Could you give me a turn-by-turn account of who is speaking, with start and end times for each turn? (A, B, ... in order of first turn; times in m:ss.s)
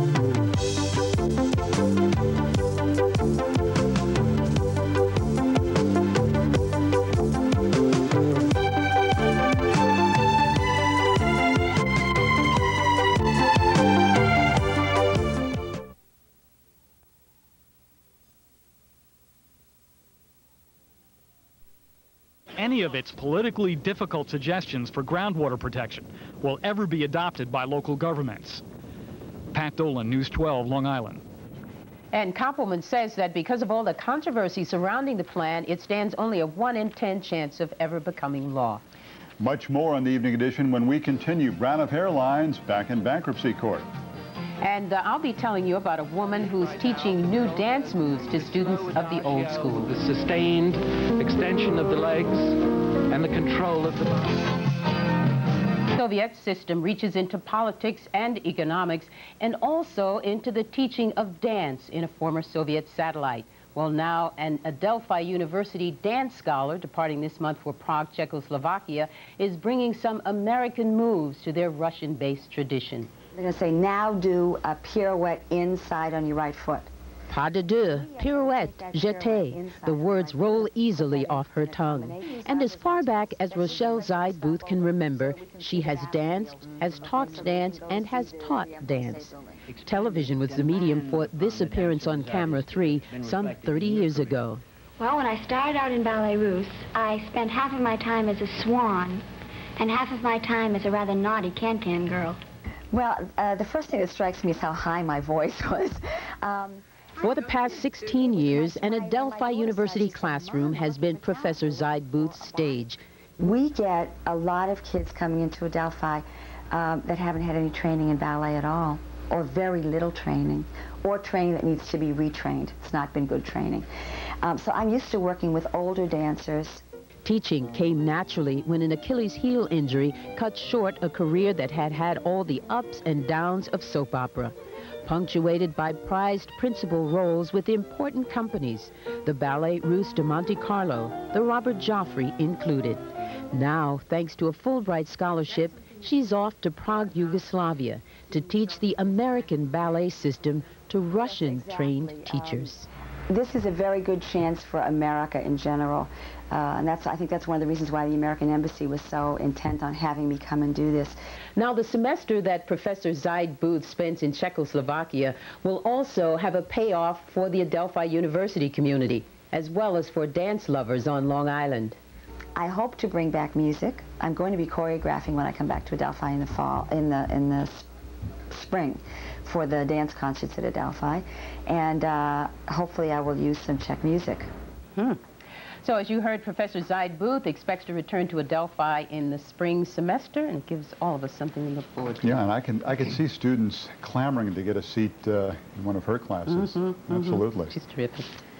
0:22.6-0:28.6 A
0:29.5-0:31.2 A
0:32.1-0:38.8 B
0:39.4-0:43.9 C
0:44.6-0:49.9 B
0:46.2-0:54.5 D
0:55.9-1:13.1 B
1:13.3-1:16.9 E
1:17.3-1:34.6 B
1:17.9-1:29.6 E
1:32.2-1:32.9 D
1:35.0-1:39.2 F
1:39.8-1:42.4 F
1:42.9-1:52.8 E
1:47.2-1:53.0 B
1:53.4-2:03.8 E
2:04.4-2:06.8 E
2:07.2-2:14.5 B
2:15.0-2:32.9 B
2:31.2-2:32.8 E
2:33.3-2:41.2 E
2:41.6-2:52.0 B
2:52.6-2:57.8 E
2:58.5-3:04.5 E
3:05.8-3:12.4 B
3:12.2-3:17.7 C
3:16.5-3:18.4 B